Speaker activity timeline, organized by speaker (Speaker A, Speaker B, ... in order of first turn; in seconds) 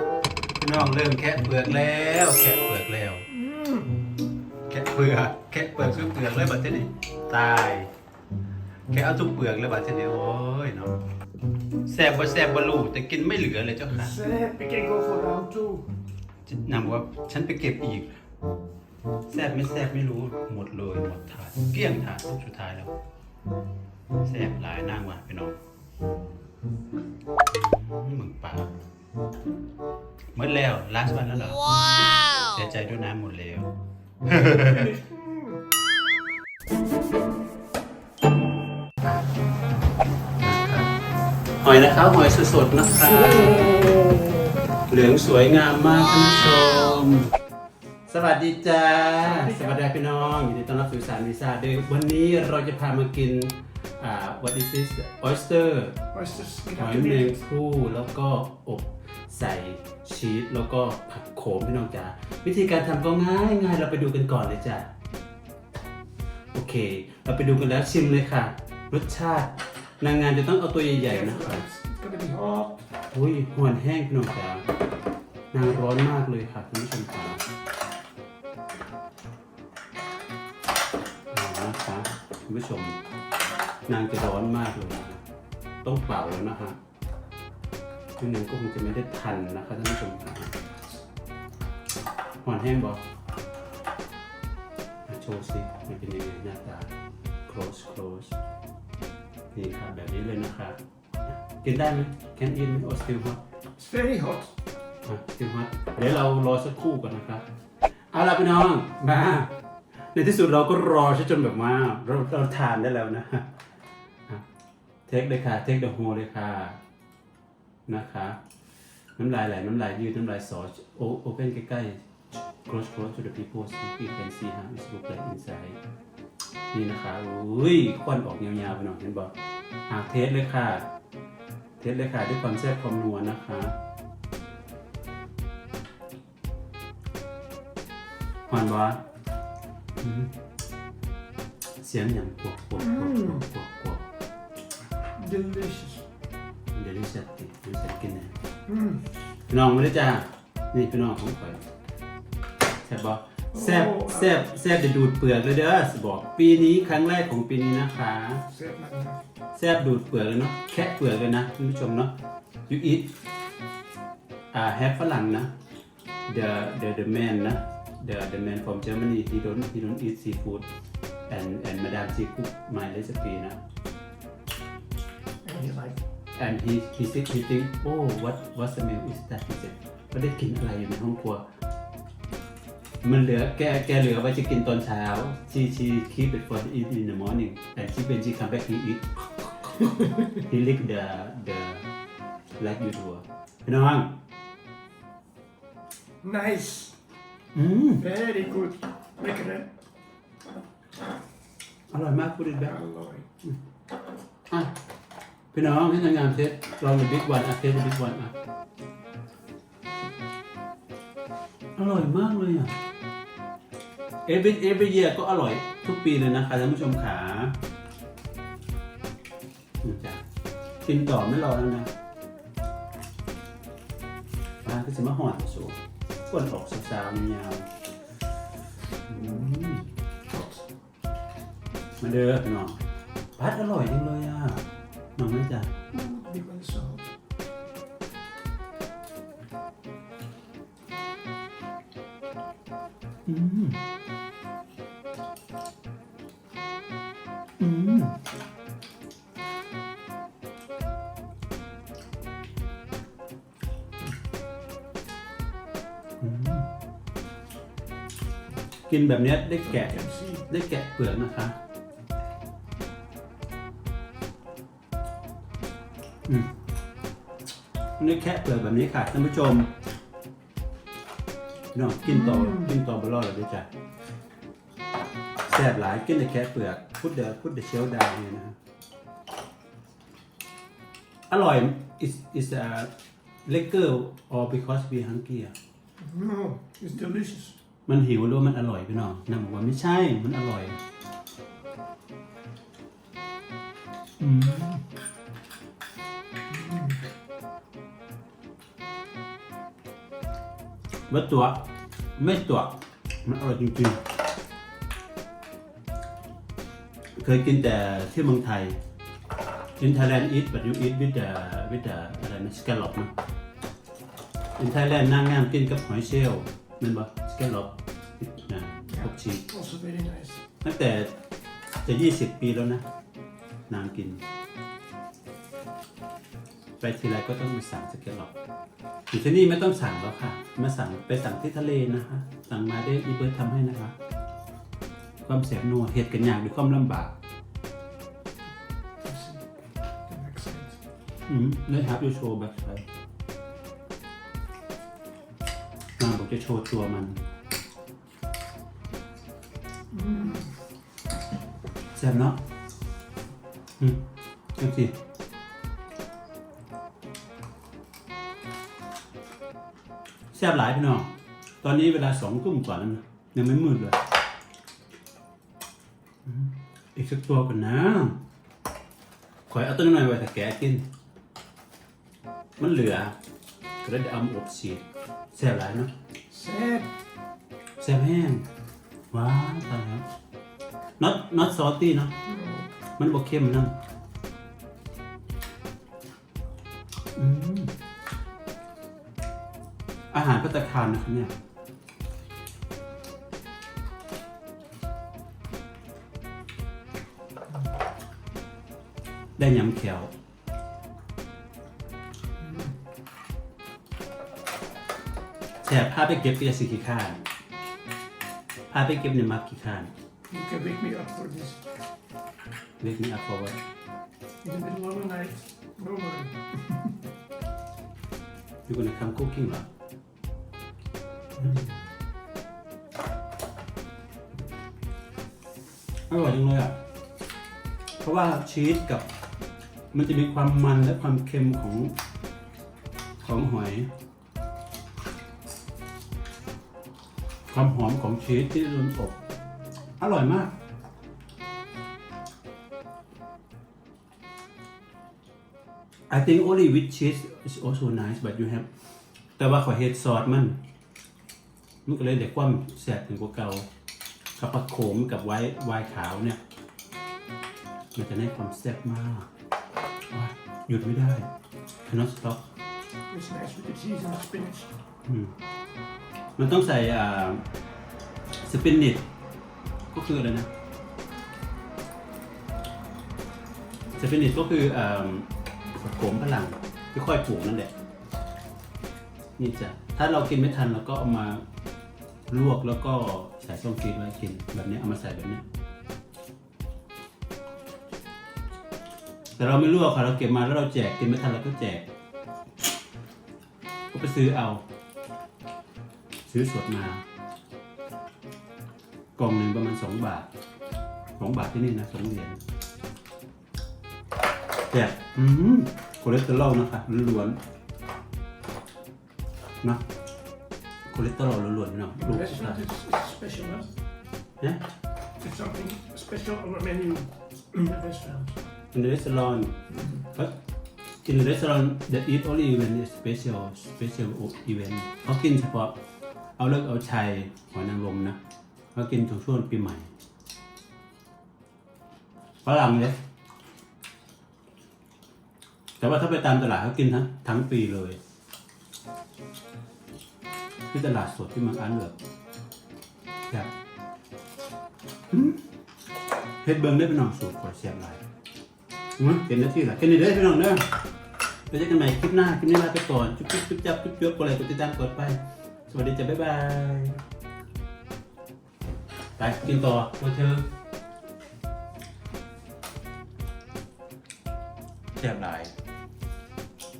Speaker A: 0.6-3.3, 4.7-7.9, 8.9-11.0, 11.8-14.2, 16.4-18.1, 19.3-22.9, 24.2-25.6, 27.5-28.7, 30.3-33.7, 34.2-34.9, 40.4-40.9, 41.6-43.9, 44.9-47.3, 48.1-56.0, 56.8-64.9, 66.5-71.6, 73.1-74.6, 75.5-77.4, 81.3-83.0, 83.9-85.2, 85.8-86.8, 88.2-90.6, 92.4-93.0, 95.1-96.9, 97.5-98.3, 99.5-100.8, 101.6-103.4, 105.0-107.4, 108.1-109.5, 110.1-113.5, 115.1-116.8, 117.9-118.4, 119.2-122.0, 122.6-125.8, 126.7-129.3, 129.9-130.9, 131.8-133.8, 138.5-139.0, 140.0-140.3, 141.8-144.0, 146.7-148.3, 149.5-151.6, 152.8-158.4, 159.5-162.1, 162.7-163.1, 164.5-165.5, 166.3-170.7, 171.3-173.6, 176.3-181.4, 183.0-191.8, 192.6-194.2, 197.5-198.0, 201.9-202.7, 205.5-208.3, 211.8-212.7, 214.2-217.6, 219.8-220.2, 220.8-221.9, 224.6-227.7, 229.1-229.9, 232.0-232.8, 233.4-234.6, 235.2-235.7, 243.2-243.8, 247.6-248.2, 256.2-256.7, 258.9-261.6, 268.0-269.7, 271.7-273.7, 275.4-278.6, 281.3-282.9, 283.4-285.5, 287.9-290.8, 294.2-294.8, 301.1-301.6, 302.2-304.1, 307.1-308.8, 309.8-313.1, 314.6-319.5, 320.6-321.1, 321.8-322.8, 323.7-324.2, 326.8-328.3, 329.1-333.9, 335.2-337.1, 341.3-342.8, 346.0-347.2, 351.9-352.4, 353.8-354.0, 354.6-354.9, 360.3-361.1, 361.6-364.0, 366.2-368.2, 369.5-370.8, 372.6-373.1, 373.8-375.9, 377.8-378.5, 379.1-380.1, 381.0-382.1, 383.0-383.7, 387.1-387.7, 390.1-391.3, 399.4-400.1, 405.6-407.2, 408.7-409.9, 412.8-413.6, 418.7-419.7, 421.4-421.7, 426.1-426.7, 428.0-429.0, 429.9-431.9, 433.2-433.9, 437.5-439.1, 440.0-440.5, 446.1-448.7, 449.4-450.6, 451.9-453.7, 454.4-456.4, 457.9-459.3, 460.1-461.3, 461.8-462.4, 465.1-465.3, 466.4-467.4, 468.4-469.0, 469.9-470.5, 473.9-477.7, 479.4-481.4, 482.3-485.4, 489.4-491.9, 493.9-494.6, 496.3-497.0, 499.1-500.3, 501.2-502.4, 504.7-507.4, 510.9-512.7, 518.7-519.6, 520.1-520.3, 521.0-525.7, 526.4-528.2, 528.7-529.9, 532.4-533.0, 535.8-538.0, 540.7-541.9, 545.1-545.4, 546.4-548.0, 549.0-550.7, 551.5-557.0, 559.2-560.5, 565.0-565.5
Speaker B: 3.4-3.9, 13.9-15.9, 34.5-35.6, 49.2-49.8, 56.1-57.3, 71.0-72.8, 103.8-104.5, 142.8-143.4, 145.2-146.0, 148.7-149.1, 153.5-154.4, 158.5-159.2, 175.4-176.0, 196.2-196.9, 198.0-199.7, 202.6-203.3, 230.3-230.6, 235.9-237.1, 259.6-260.5, 272.0-272.7, 286.0-287.6, 296.5-297.0, 318.9-320.4, 339.0-339.4, 340.1-340.8, 349.9-350.5, 376.3-376.9, 382.2-382.7, 402.4-402.8, 410.3-411.7, 414.4-416.9, 463.1-464.7, 512.0-513.7, 515.2-518.4, 519.7-520.0